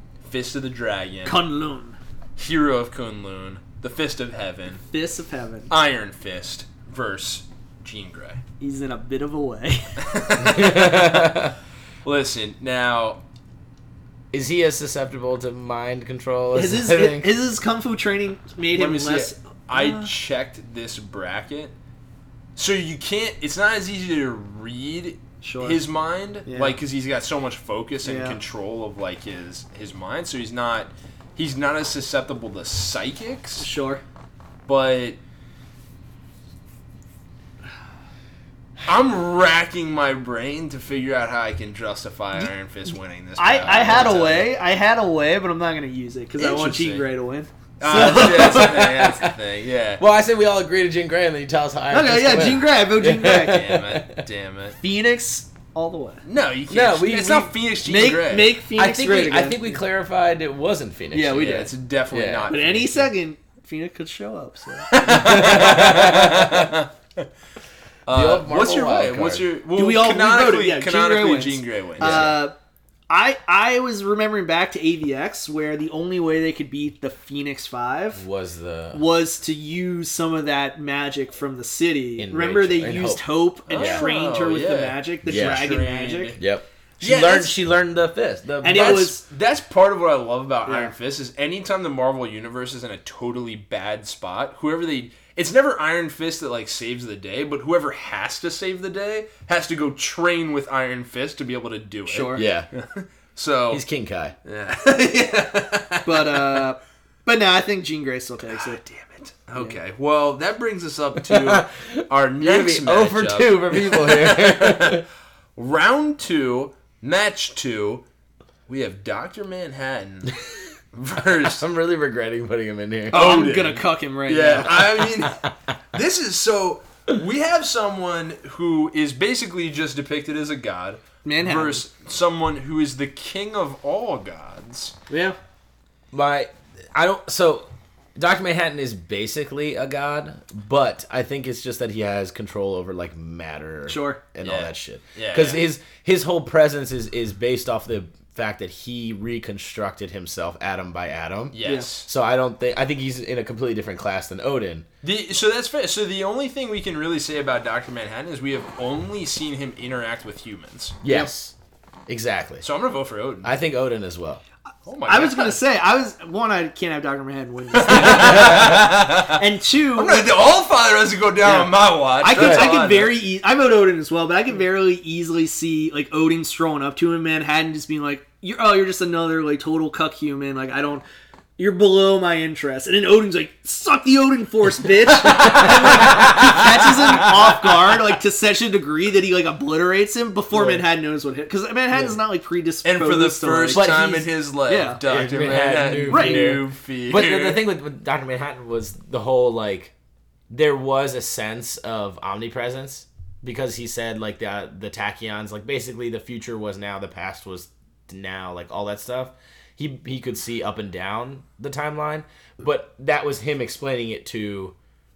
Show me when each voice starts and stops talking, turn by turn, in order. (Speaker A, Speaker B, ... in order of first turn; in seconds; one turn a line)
Speaker A: 0.2-1.4
Speaker B: 1.2-2.0
Speaker A: 2.4-4.8
Speaker B: 4.9-5.7
Speaker A: 5.7-8.4
Speaker B: 8.6-10.0
Speaker A: 10.0-11.4
Speaker C: 10.4-11.5
Speaker A: 12.1-13.2
Speaker C: 14.3-17.3
Speaker B: 16.5-20.1
Speaker A: 18.7-21.7
Speaker A: 22.6-33.7
Speaker B: 25.4-25.8
Speaker B: 26.5-26.8
Speaker B: 28.0-28.4
Speaker B: 33.6-34.0
Speaker A: 34.7-35.2
Speaker A: 38.9-44.5
Speaker B: 43.4-48.9
Speaker A: 46.4-47.1
Speaker A: 47.8-50.0
Speaker C: 48.1-49.4
Speaker C: 50.0-54.2
Speaker B: 51.9-53.7
Speaker A: 53.4-54.8
Speaker B: 54.8-56.2
Speaker A: 56.3-58.6
Speaker C: 56.7-57.5
Speaker B: 57.8-59.8
Speaker C: 58.8-62.5
Speaker B: 61.1-61.7
Speaker A: 61.4-63.1
Speaker B: 62.5-65.4
Speaker A: 64.9-67.3
Speaker C: 65.0-66.7
Speaker A: 68.1-72.4
Speaker C: 68.1-69.5
Speaker B: 69.8-72.5
Speaker C: 72.0-72.4
Speaker B: 73.1-78.2
Speaker C: 78.1-79.0
Speaker B: 78.9-86.4
Speaker C: 82.2-84.0
Speaker A: 83.7-86.4
Speaker C: 85.3-85.7
Speaker C: 86.4-89.1
Speaker A: 87.0-87.5
Speaker B: 88.6-89.2
Speaker A: 88.7-103.8
Speaker B: 90.7-90.9
Speaker B: 102.1-102.5
Speaker C: 102.3-102.7
Speaker C: 103.7-104.4
Speaker A: 104.5-106.7
Speaker B: 106.0-108.8
Speaker A: 108.5-115.0
Speaker C: 111.2-115.0
Speaker A: 115.6-118.0
Speaker A: 118.7-120.3
Speaker A: 120.9-121.6
Speaker C: 121.6-123.4
Speaker B: 123.1-125.0
Speaker A: 123.1-125.4
Speaker C: 124.6-125.3
Speaker A: 125.9-134.9
Speaker B: 131.2-131.8
Speaker B: 135.1-135.4
Speaker C: 136.1-154.9
Speaker B: 143.9-144.2
Speaker A: 144.4-145.6
Speaker A: 151.5-152.1
Speaker B: 151.6-151.9
Speaker A: 155.0-161.0
Speaker C: 161.0-161.5
Speaker C: 162.1-162.7
Speaker A: 162.6-163.5
Speaker C: 163.4-164.4
Speaker A: 164.9-165.6
Speaker B: 165.1-170.3
Speaker A: 167.7-169.4
Speaker C: 167.9-168.8
Speaker A: 170.0-173.2
Speaker B: 172.2-181.1
Speaker C: 172.3-172.7
Speaker B: 181.6-194.1
Speaker A: 185.2-187.7
Speaker C: 185.4-186.4
Speaker C: 190.5-190.8
Speaker C: 191.9-192.2
Speaker A: 192.8-197.7
Speaker C: 193.7-194.3
Speaker B: 194.7-195.0
Speaker C: 195.1-199.9
Speaker B: 196.1-196.6
Speaker C: 200.5-214.8